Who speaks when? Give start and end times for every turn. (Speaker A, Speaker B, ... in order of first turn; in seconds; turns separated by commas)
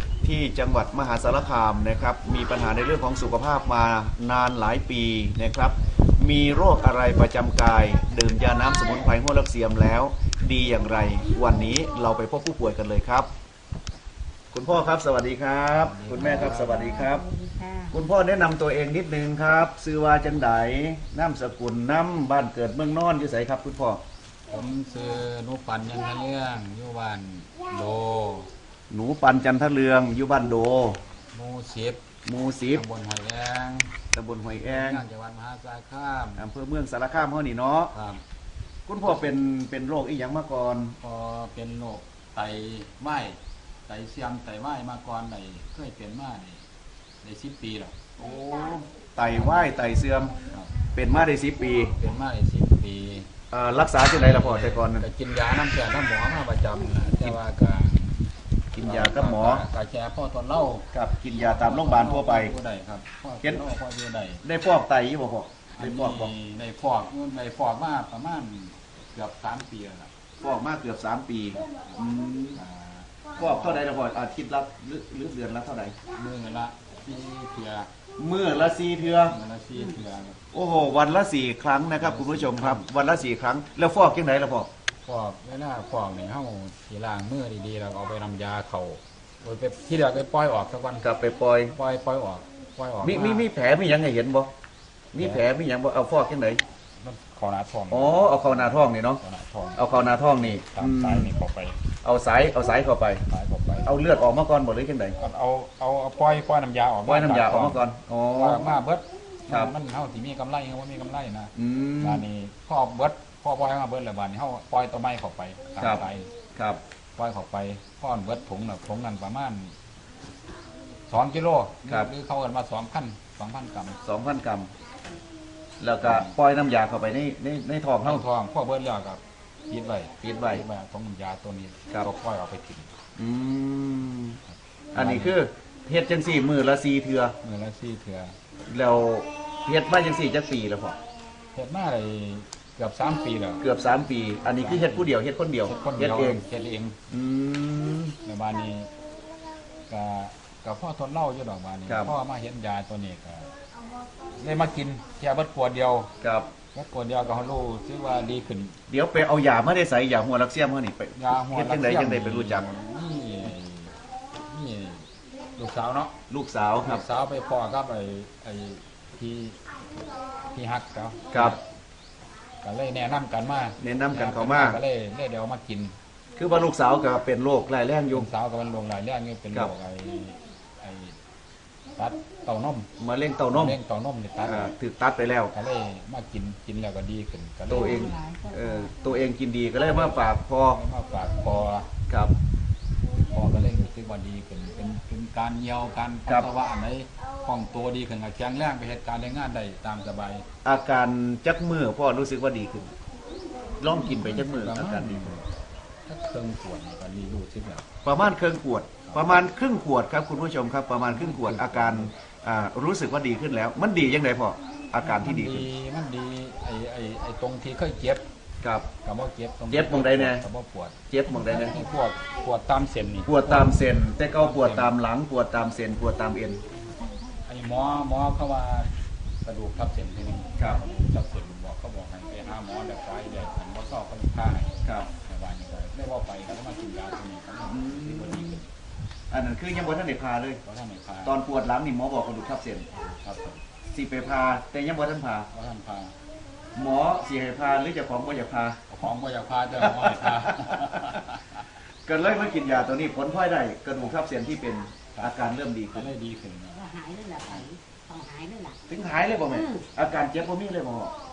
Speaker A: 0.2-13.3, Speaker A: 14.5-17.2, Speaker B: 15.7-17.1, Speaker C: 16.2-17.9, Speaker A: 17.9-24.0, Speaker B: 24.5-28.5, Speaker A: 28.9-31.0, Speaker B: 31.3-32.0, Speaker A: 32.2-32.8, Speaker B: 32.7-33.9, Speaker A: 34.1-35.0, Speaker B: 34.5-36.5, Speaker A: 36.4-37.9, Speaker B: 37.9-38.2, Speaker A: 38.9-41.0, Speaker B: 39.0-39.3, Speaker B: 41.0-46.6, Speaker B: 47.2-47.9, Speaker A: 48.2-50.4, Speaker B: 49.2-49.7, Speaker B: 50.5-50.7, Speaker A: 50.9-51.9, Speaker B: 52.0-53.3, Speaker A: 53.5-55.0, Speaker B: 54.0-58.2, Speaker A: 58.7-59.7, Speaker B: 58.8-64.4, Speaker A: 60.9-62.5, Speaker A: 64.4-66.3, Speaker B: 65.7-70.1, Speaker A: 70.4-72.6, Speaker B: 71.6-72.0, Speaker B: 72.5-73.8, Speaker A: 73.4-75.9, Speaker B: 76.1-77.9, Speaker A: 78.2-79.3, Speaker B: 79.2-80.4, Speaker A: 80.5-84.7, Speaker B: 82.0-82.9, Speaker B: 85.0-91.1, Speaker A: 91.0-91.8, Speaker B: 91.7-93.5, Speaker A: 93.0-94.5, Speaker A: 95.1-96.6, Speaker B: 95.2-95.4, Speaker B: 97.0-101.8, Speaker A: 97.9-99.2, Speaker A: 99.8-101.3, Speaker A: 102.0-103.2, Speaker B: 103.2-104.0, Speaker A: 103.8-105.2, Speaker B: 105.2-116.3, Speaker A: 107.0-108.6, Speaker A: 109.5-109.7, Speaker A: 111.5-112.2, Speaker A: 115.8-116.8, Speaker B: 117.2-119.7, Speaker B: 121.1-124.0, Speaker A: 121.8-122.1, Speaker A: 124.0-124.7, Speaker A: 125.8-128.2, Speaker B: 126.0-126.3, Speaker B: 128.0-132.9, Speaker A: 130.2-130.6, Speaker A: 133.2-134.4, Speaker B: 134.5-135.3, Speaker A: 134.9-137.3, Speaker B: 137.4-138.3, Speaker A: 138.7-141.0, Speaker B: 141.5-143.7, Speaker A: 143.6-146.4, Speaker B: 144.4-145.1, Speaker B: 145.6-147.0, Speaker A: 147.1-148.2, Speaker B: 148.2-148.9, Speaker B: 149.9-153.5, Speaker A: 151.9-152.1, Speaker B: 154.4-156.1, Speaker A: 156.2-156.5, Speaker B: 156.7-158.8, Speaker A: 158.9-162.7, Speaker B: 161.2-166.1, Speaker A: 166.3-167.0, Speaker B: 166.8-169.6, Speaker B: 170.5-171.6, Speaker A: 171.3-171.6, Speaker B: 172.6-175.9, Speaker A: 173.8-174.8, Speaker A: 176.3-178.3, Speaker B: 178.1-181.2, Speaker B: 181.9-182.9, Speaker A: 183.0-183.8, Speaker B: 183.5-184.7, Speaker A: 184.4-185.5, Speaker B: 185.5-188.2, Speaker C: 187.7-188.9, Speaker A: 187.7-190.8, Speaker B: 189.8-191.9, Speaker A: 192.1-192.3, Speaker B: 193.3-200.4, Speaker A: 200.6-202.9, Speaker A: 203.8-205.3, Speaker B: 203.9-205.4, Speaker B: 206.1-207.8, Speaker A: 208.0-215.7, Speaker B: 211.1-212.1, Speaker B: 215.0-218.2, Speaker A: 218.6-218.9, Speaker B: 219.0-224.9, Speaker A: 219.7-220.4, Speaker A: 221.1-221.8, Speaker A: 223.3-226.6, Speaker B: 227.4-228.9, Speaker B: 229.4-238.7, Speaker A: 237.6-238.6, Speaker A: 239.3-240.6, Speaker B: 240.6-241.4, Speaker A: 241.2-242.8, Speaker B: 242.9-243.6, Speaker A: 243.9-245.5, Speaker B: 245.5-246.1, Speaker A: 246.7-248.8, Speaker B: 248.9-251.6, Speaker A: 249.7-251.1, Speaker A: 252.1-256.1, Speaker B: 255.1-256.7, Speaker C: 256.7-258.8, Speaker A: 258.9-261.1, Speaker C: 259.5-259.9